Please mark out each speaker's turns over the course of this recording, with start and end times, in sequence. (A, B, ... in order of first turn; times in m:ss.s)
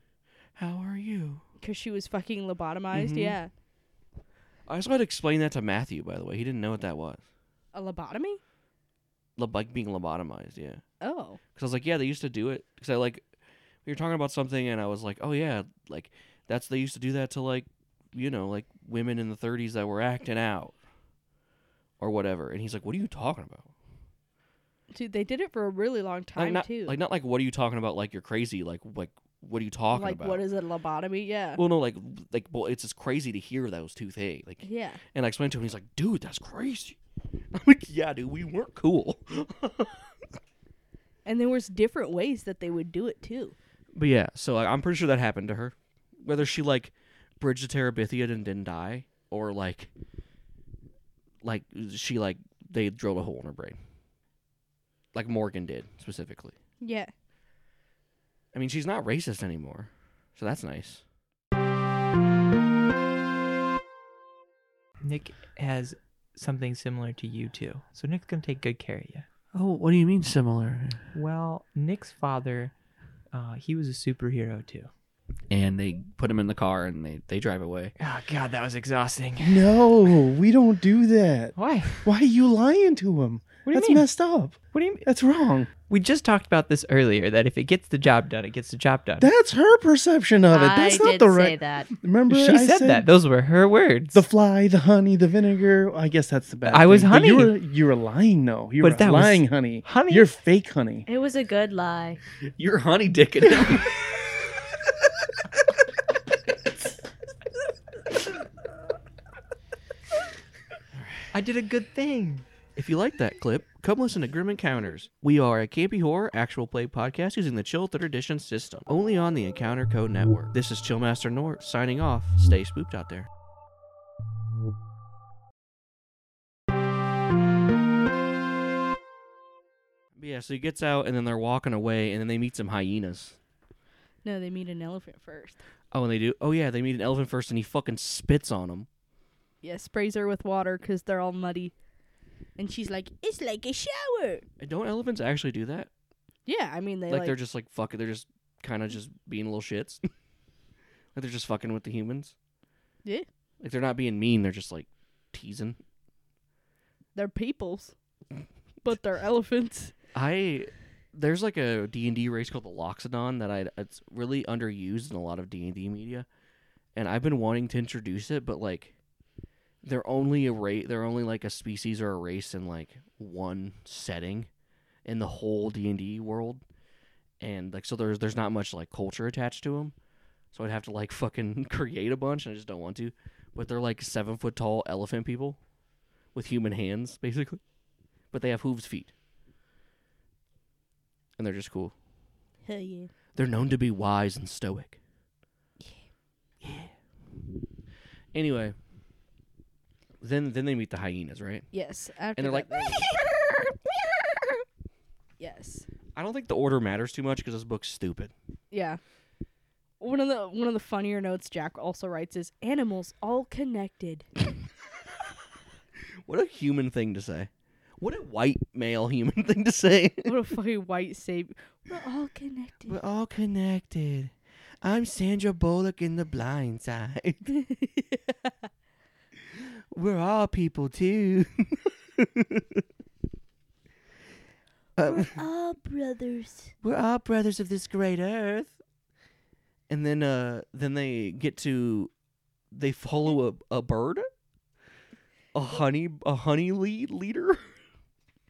0:00.6-0:01.4 A
0:01.6-0:03.5 B
0:02.9-0:03.4 A
0:04.7-0:07.2 A
0:07.7-0:08.4 B
0:09.4-0:10.8 A
0:11.0-0:11.4 B
0:11.5-0:13.2 A
0:13.8-0:20.7 A
0:22.0-0:23.7 A
0:24.9-0:27.0 B
0:26.4-0:30.4 A
0:29.9-0:31.6 B
0:31.6-0:37.0 A
0:34.6-0:35.0 B
0:37.5-0:40.0 A
0:41.2-0:43.5 B
0:43.9-0:49.9 A
0:51.4-0:53.8 A
0:55.1-0:56.6 A
0:56.8-0:57.1 B
0:58.5-1:01.0 A
1:05.0-1:09.3 C
1:09.5-1:11.0 A
1:11.1-1:12.7 C
1:13.3-1:14.9 C
1:15.5-1:17.9 A
1:18.0-1:19.8 C
1:19.4-1:25.7 D
1:21.5-1:22.1 C
1:23.6-1:24.1 C
1:24.7-1:25.0 C
1:25.9-1:29.3 C
1:29.2-1:33.1 D
1:30.5-1:31.9 E
1:32.2-1:34.2 C
1:34.1-1:41.0 D
1:36.6-1:37.6 C
1:38.8-1:40.3 C
1:41.0-1:42.2 E
1:42.4-1:43.9 A
1:51.3-1:52.4 C
1:52.8-2:03.3 A
2:10.2-2:13.4 A
2:14.2-2:15.6 B
2:15.9-2:18.9 A
2:19.6-2:21.7 B
2:22.6-2:24.4 B
2:24.6-2:25.9 A
2:26.4-2:27.4 B
2:27.1-2:30.0 A
2:31.1-2:32.3 A
2:33.6-2:35.8 A
2:37.1-2:37.9 B
2:38.8-2:39.9 B
2:40.1-2:46.2 A
2:46.9-2:48.9 A
2:49.8-2:54.5 A
2:55.0-2:56.6 A
2:57.4-2:59.9 A
3:00.5-3:05.6 A
3:06.3-3:07.6 A
3:08.3-3:09.1 A
3:11.4-3:11.9 A
3:12.6-3:13.1 B
3:13.3-3:15.0 A
3:15.8-3:16.1 B
3:16.6-3:16.9 A
3:18.3-3:18.7 A
3:20.2-3:21.7 A
3:21.7-3:23.1 B
3:22.4-3:23.6 A
3:25.4-3:25.9 B
3:26.2-3:28.3 A
3:28.7-3:29.0 B
3:30.0-3:34.3 B
3:36.2-3:40.3 A
3:40.2-3:43.0 B
3:42.8-3:47.5 A
3:47.5-3:48.7 B
3:49.9-3:52.8 A
3:55.0-3:55.4 A
3:55.1-3:56.7 B
3:56.8-3:58.8 A
3:59.9-4:02.1 A
4:02.7-4:04.3 A
4:05.5-4:07.6 A